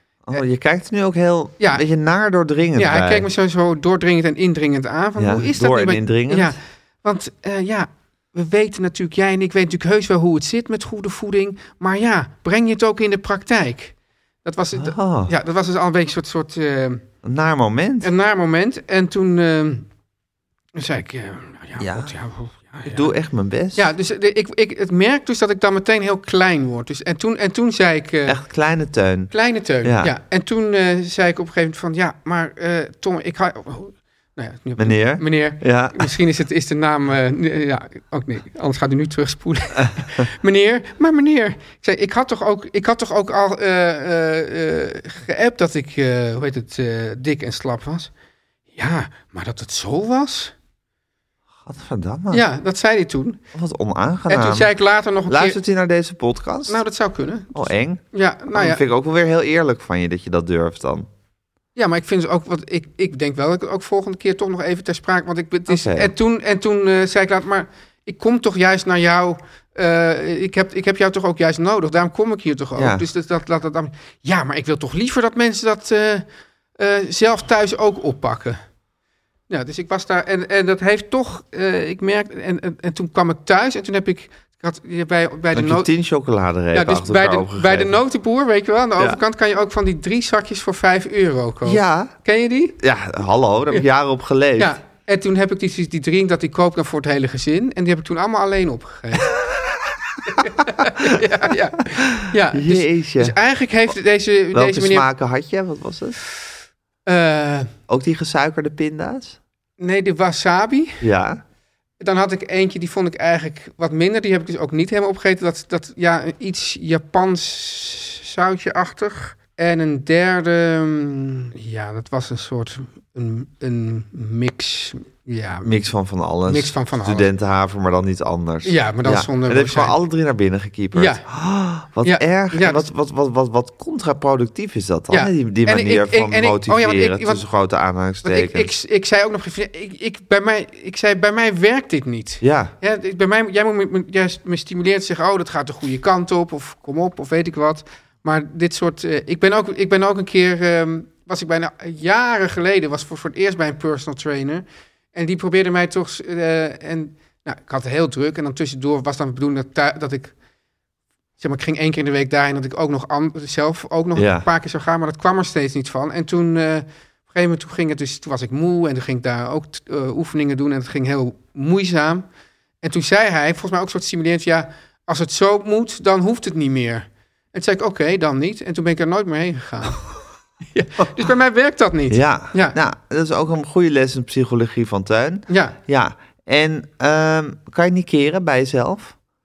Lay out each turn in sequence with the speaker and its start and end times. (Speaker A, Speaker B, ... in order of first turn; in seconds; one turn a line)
Speaker A: 0.2-3.3
Speaker B: 2.8-17.0
Speaker A: 5.2-6.5
Speaker A: 14.7-15.3
Speaker A: 17.2-18.1
Speaker B: 18.0-19.9
Speaker B: 20.7-23.1
Speaker A: 21.8-22.1
Speaker A: 22.9-23.9
Speaker B: 23.7-28.4
Speaker A: 28.2-29.3
Speaker B: 29.3-48.1
Speaker A: 29.8-30.1
Speaker A: 34.8-36.1
Speaker B: 48.7-50.5
Speaker A: 51.6-52.4
Speaker B: 52.3-53.4
Speaker A: 53.5-54.7
Speaker B: 54.3-55.6
Speaker A: 55.3-56.8
Speaker B: 56.7-58.8
Speaker A: 57.5-58.0
Speaker A: 58.5-61.1
Speaker B: 61.8-76.2
Speaker A: 65.7-66.1
Speaker A: 72.8-73.0
Speaker B: 76.8-78.6
Speaker B: 79.5-85.9
Speaker A: 85.5-87.9
Speaker B: 86.7-92.8
Speaker A: 91.6-92.1
Speaker A: 92.8-94.7
Speaker B: 94.6-99.3
Speaker B: 100.2-105.1
Speaker A: 100.8-101.2
Speaker A: 101.9-103.3
Speaker A: 104.5-106.2
Speaker B: 107.0-107.7
Speaker A: 107.9-109.4
Speaker B: 109.8-111.0
Speaker A: 111.0-111.4
Speaker B: 112.0-125.7
Speaker A: 125.6-138.7
Speaker B: 126.5-127.3
Speaker B: 128.6-129.9
Speaker B: 130.9-131.2
Speaker B: 132.0-132.8
Speaker B: 135.1-137.4
Speaker B: 138.2-160.3
Speaker A: 142.4-142.7
Speaker B: 161.4-172.2
Speaker A: 164.2-164.4
Speaker B: 172.8-180.1
Speaker B: 180.7-182.8
Speaker A: 182.1-189.1
Speaker B: 185.5-185.8